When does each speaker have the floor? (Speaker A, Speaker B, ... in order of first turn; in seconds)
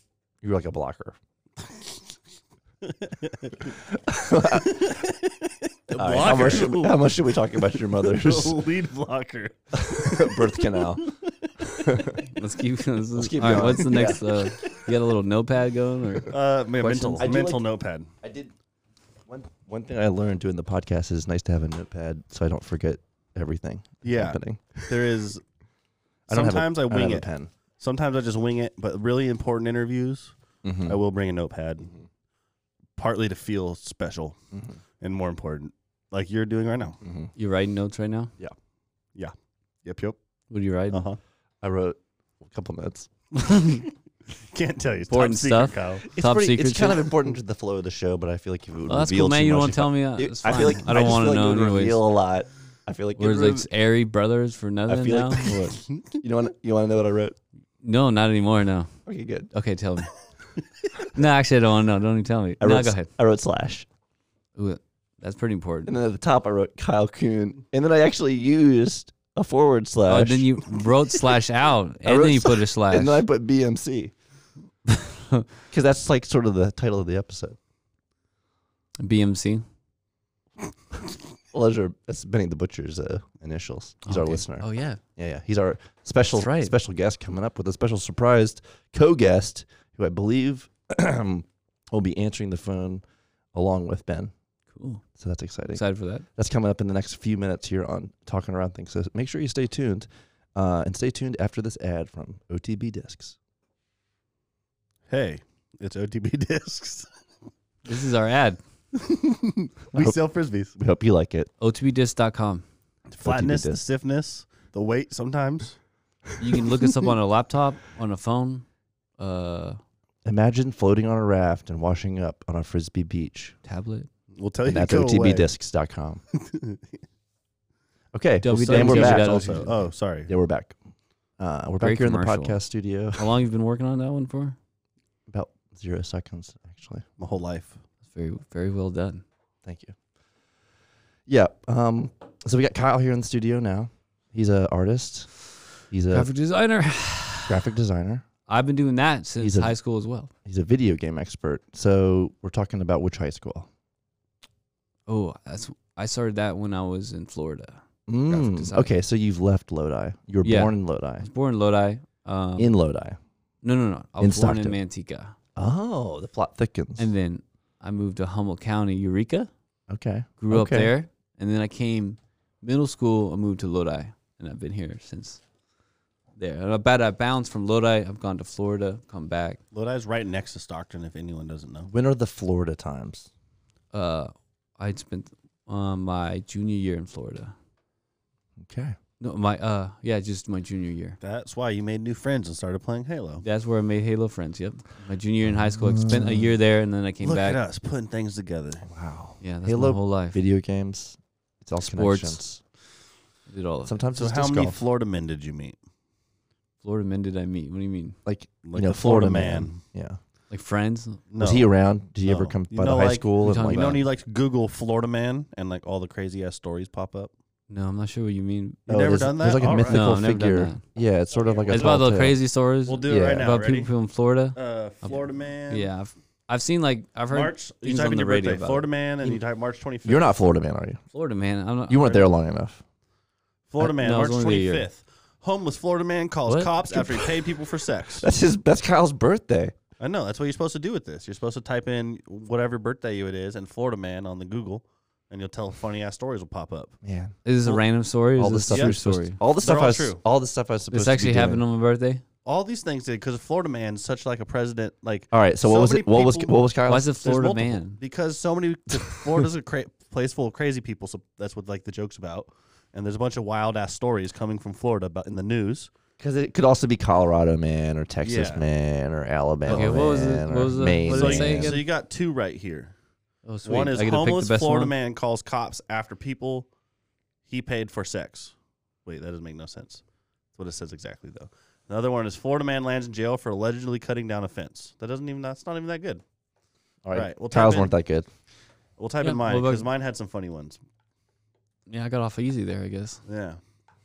Speaker A: 0.4-1.2, 3.9-4.9, 5.9-8.6, 9.7-11.1, 11.6-12.2, 13.2-14.2, 17.2-17.6, 18.2-18.5, 19.3-25.1, 26.3-27.5, 30.6-31.0, 34.5-34.8, 37.0-37.3, 41.6-43.1, 46.1-53.7, 54.9-55.6, 56.2-57.4, 59.0-59.5, 62.6-63.9, 65.8-70.5, 72.0-74.1, 75.7-77.6, 81.5-93.0, 93.5-94.3, 95.2-103.3, 110.8-111.5, 113.2-113.8, 120.2-123.5, 124.6-126.2, 128.1-129.7, 130.2-130.8, 131.4-133.3, 135.3-137.0, 139.6-139.9, 141.3-145.3, 145.9-146.3, 147.5-148.2, 149.4-149.8, 150.4-153.7, 158.1-161.3, 162.6-163.2, 164.2-164.8, 165.6-167.1, 169.9-170.9, 181.9-183.3, 188.6-188.9, 195.5-196.5, 198.9-202.6, 203.8-204.8, 208.2-210.2, 211.4-214.0, 218.9-222.4, 223.0-223.5, 230.0-231.0, 231.9-232.8, 238.2-239.7, 247.0-247.3, 248.4-251.6, 255.3-257.1, 266.2-271.8, 287.0-288.3
Speaker B: 2.8-3.7, 4.5-7.1, 7.7-11.1, 13.5-14.2, 16.3-18.1, 24.0-25.4, 26.3-27.3, 27.8-31.9, 33.0-34.4, 35.0-37.0, 39.8-40.2, 40.9-41.2, 43.4-46.0, 55.9-56.2, 105.1-107.1, 109.0-110.7, 113.1-115.8, 124.3-125.5, 126.3-126.8, 128.5-130.3, 137.2-137.8, 179.7-181.9, 191.2-193.4, 197.2-198.9, 204.2-205.8, 208.6-209.8, 211.3-211.7, 212.2-217.3, 218.9-220.1, 221.3-222.0, 222.8-223.9, 224.5-225.9, 227.3-230.3, 233.7-238.3, 240.0-246.9, 248.7-248.9, 249.6-250.2, 252.4-256.7, 257.2-265.9, 268.2-268.6, 269.7-270.0, 271.0-272.9, 273.6-276.7, 277.5-278.5, 279.0-280.0, 280.6-286.2, 287.1-287.9, 289.0-290.8, 293.3-293.6
Speaker C: 12.3-17.2, 37.4-38.3, 40.5-41.0, 45.1-47.1, 48.9-52.0, 53.2-55.8, 57.8-59.0, 59.5-60.1, 61.1-63.1, 64.5-65.9, 70.0-73.2, 74.9-75.5, 79.0-79.6, 84.0-85.0, 86.3-86.7, 94.7-95.0, 95.7-96.2, 107.8-108.6, 111.6-112.6, 116.4-118.6, 119.2-119.8, 123.6-124.1, 128.4-129.8, 131.8-132.6, 133.1-134.6, 138.1-139.2, 146.1-147.6, 148.5-150.3, 155.1-158.9, 160.4-162.7, 163.6-165.3, 167.0-169.5, 170.4-175.4, 176.4-179.6, 183.9-187.5, 189.2-191.2, 193.4-197.6, 199.4-200.4, 201.8-202.4, 203.5-203.9, 206.8-208.2, 210.5-211.2, 213.4-214.0, 217.7-218.8, 219.8-220.8, 221.7-229.4, 231.1-232.3, 233.8-234.9, 236.5-237.2, 247.4-249.4, 250.9-252.2, 256.9-258.0, 269.7-271.8, 273.4-274.9, 289.2-289.9, 291.9-293.2